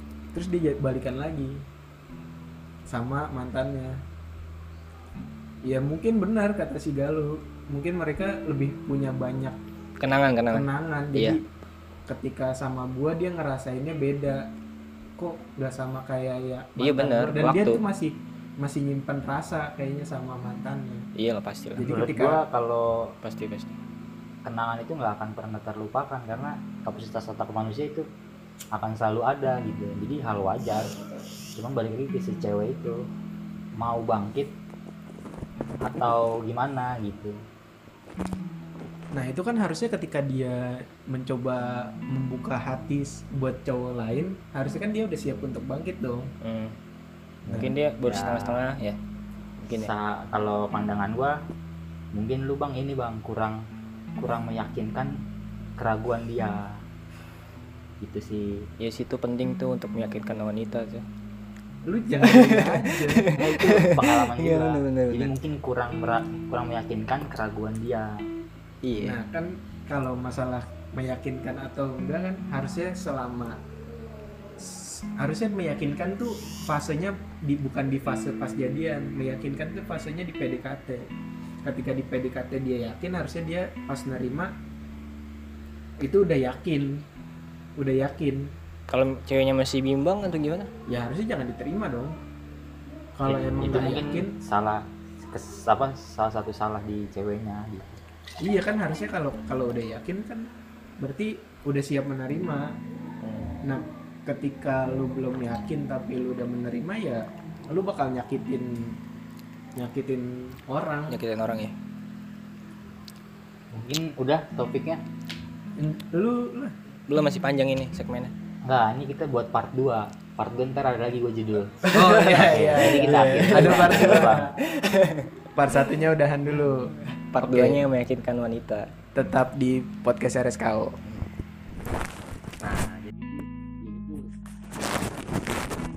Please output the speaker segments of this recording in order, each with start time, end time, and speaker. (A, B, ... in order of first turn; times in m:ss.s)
0:00.3-0:01.6 A
0:02.9-0:04.0 A
0:05.6-0:09.6 A
0:10.0-0:11.4 B
0:10.5-0:11.4 A
0:12.1-0:14.5 A
0:15.2-0:21.0 A
0:16.8-0:17.8 B
0:21.2-0:22.0 B
0:21.8-0:22.4 A
0:21.9-0:23.1 C
0:23.2-0:23.7 B
0:24.4-0:28.0 C
0:28.7-0:30.9 C
0:31.5-0:33.0 C
0:33.8-0:34.5 C
0:35.8-0:37.4 C
0:39.1-0:46.3 A
0:46.4-0:46.7 B
0:47.5-0:48.6 C
0:47.5-0:49.0 B
0:49.6-0:49.9 B
0:49.7-0:51.4 C
0:52.1-0:53.6 C
0:54.2-0:55.2 C
0:55.8-0:56.8 C
0:58.0-0:58.7 C
0:58.8-1:01.0 B
1:01.9-1:03.3 A
1:02.2-1:05.3 B
1:03.4-1:08.2 C
1:08.8-1:09.2 B
1:09.0-1:13.6 A
1:14.6-1:21.1 A
1:21.6-1:24.5 A
1:26.0-1:27.0 A
1:27.8-1:28.5 A
1:28.9-1:30.7 B
1:30.9-1:32.2 A
1:33.2-1:34.3 A
1:33.2-1:38.0 C
1:38.4-1:40.5 A
1:41.0-1:42.7 A
1:43.2-1:43.6 B
1:43.6-1:48.9 A
1:49.8-1:51.1 A
1:51.1-1:51.7 B
1:53.7-1:55.0 C
1:55.8-1:56.7 A
1:57.1-1:58.3 B
1:58.6-2:01.9 C
2:01.9-2:05.3 B
2:01.9-2:04.5 A
2:02.4-2:04.5 C
2:05.6-2:07.8 A
2:07.3-2:08.9 B
2:09.1-2:11.0 A
2:12.6-2:12.9 B
2:12.7-2:14.2 C
2:15.1-2:15.5 C